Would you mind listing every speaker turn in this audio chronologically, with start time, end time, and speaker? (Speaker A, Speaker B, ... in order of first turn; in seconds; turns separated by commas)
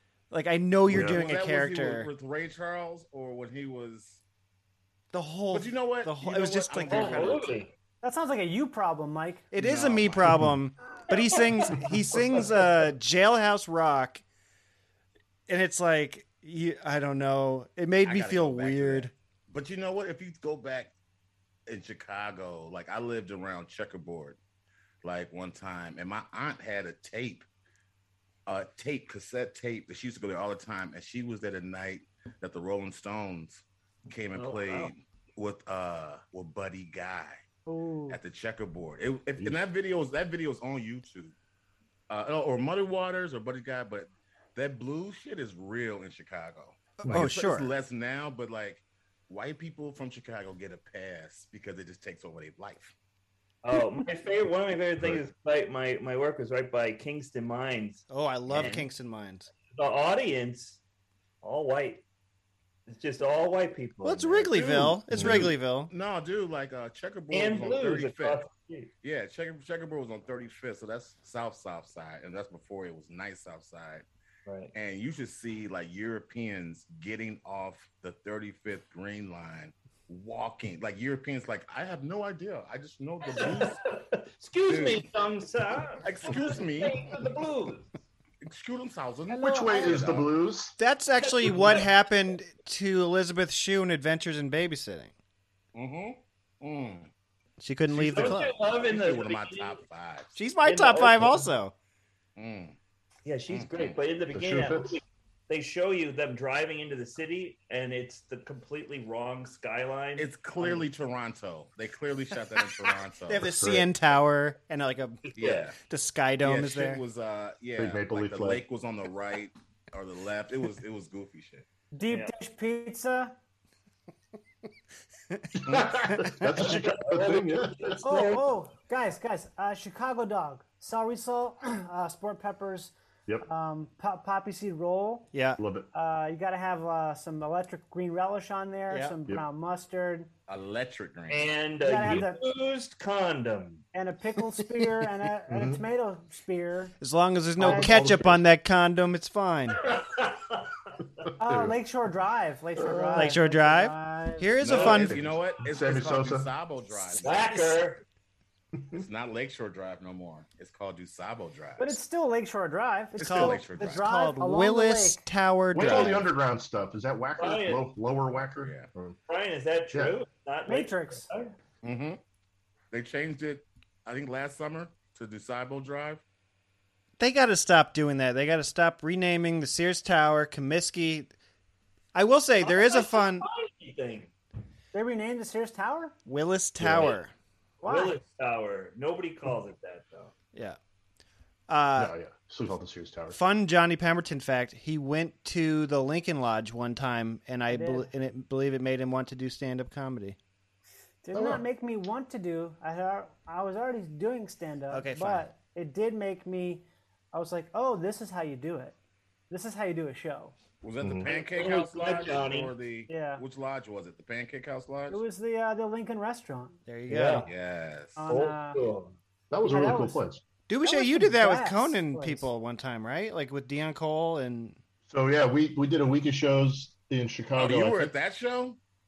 Speaker A: 0.3-2.1, Speaker B: 0.9-1.1, Speaker C: 0.9-4.2, Speaker A: 5.1-7.5, Speaker C: 5.5-7.5, Speaker D: 6.8-7.7, Speaker E: 8.0-9.5, Speaker A: 9.5-14.2, Speaker C: 9.6-10.2, Speaker B: 10.2-10.5, Speaker A: 15.5-19.1, Speaker C: 18.0-20.9, Speaker C: 21.7-24.4, Speaker C: 25.0-27.4, Speaker C: 28.4-37.4, Speaker D: 34.3-34.9, Speaker E: 37.6-38.2, Speaker C: 38.1-41.3, Speaker C: 42.1-52.9, Speaker A: 47.0-47.7, Speaker D: 53.6-58.9, Speaker A: 58.1-59.5, Speaker D: 59.7-60.8, Speaker D: 61.4-62.0, Speaker D: 62.9-64.8, Speaker A: 64.0-65.9, Speaker B: 64.7-65.5, Speaker C: 65.9-68.4, Speaker D: 67.3-68.9, Speaker C: 69.0-74.0, Speaker D: 74.5-74.7, Speaker C: 74.7-83.8, Speaker D: 83.3-87.9, Speaker C: 84.7-85.0, Speaker C: 86.0-87.2, Speaker C: 88.4-90.3, Speaker B: 89.4-90.7, Speaker E: 89.4-89.9, Speaker A: 90.8-95.1, Speaker D: 91.2-91.8, Speaker C: 95.7-97.1, Speaker A: 97.6-98.5, Speaker C: 97.9-100.3, Speaker D: 98.0-99.8, Speaker A: 100.3-101.7, Speaker D: 100.7-101.5, Speaker C: 102.3-102.8, Speaker D: 103.2-110.9, Speaker C: 103.5-104.0, Speaker B: 104.3-105.0, Speaker C: 110.2-113.5, Speaker A: 113.3-115.2, Speaker B: 113.5-113.9, Speaker C: 115.3-115.8, Speaker D: 115.3-115.7, Speaker A: 115.8-117.0, Speaker C: 116.4-121.6, Speaker B: 117.8-118.6, Speaker E: 121.9-123.3, Speaker A: 125.3-125.6, Speaker B: 125.6-128.3, Speaker A: 126.2-126.6, Speaker D: 126.6-128.4, Speaker E: 128.0-132.9, Speaker E: 133.4-135.3, Speaker A: 135.3-135.6, Speaker B: 135.6-135.9, Speaker E: 135.9-140.3, Speaker A: 138.9-139.2, Speaker C: 140.5-141.5, Speaker D: 141.3-143.8, Speaker E: 141.8-142.4, Speaker E: 143.9-146.9, Speaker B: 145.5-145.8, Speaker A: 147.0-149.8, Speaker B: 147.6-148.4, Speaker E: 147.6-148.0, Speaker D: 149.8-150.6, Speaker E: 151.4-154.5, Speaker B: 151.4-151.7, Speaker B: 152.8-153.3, Speaker A: 153.1-155.2, Speaker C: 154.6-157.6, Speaker D: 154.7-155.0, Speaker B: 154.7-156.5, Speaker D: 157.2-158.0, Speaker B: 158.8-159.0, Speaker C: 158.9-162.0, Speaker E: 161.8-165.2, Speaker C: 163.2-164.0, Speaker A: 163.2-166.2, Speaker B: 165.7-169.2, Speaker C: 165.8-166.1, Speaker D: 167.4-167.9, Speaker C: 168.6-168.9, Speaker D: 169.3-171.5, Speaker E: 170.7-171.3, Speaker C: 171.8-172.2, Speaker C: 172.9-176.2, Speaker A: 177.2-181.3, Speaker A: 182.1-183.4, Speaker D: 182.6-184.3, Speaker E: 184.9-186.1, Speaker A: 186.2-187.3, Speaker B: 186.8-187.2, Speaker E: 187.8-188.2, Speaker D: 187.8-190.3, Speaker A: 191.7-192.1, Speaker B: 192.0-193.4, Speaker A: 193.3-200.4, Speaker E: 197.7-198.1, Speaker E: 201.2-208.9, Speaker B: 201.3-201.6, Speaker A: 204.9-205.5, Speaker E: 209.5-210.5, Speaker C: 210.8-215.2, Speaker D: 211.2-212.7, Speaker E: 213.1-213.4, Speaker E: 215.1-216.8, Speaker A: 216.9-217.5, Speaker D: 217.1-217.4, Speaker C: 217.4-218.2, Speaker E: 218.2-218.9, Speaker D: 218.3-219.1, Speaker B: 219.5-220.4, Speaker E: 219.6-220.2, Speaker A: 220.7-224.8, Speaker E: 220.8-222.5, Speaker B: 225.1-228.1, Speaker C: 227.6-228.8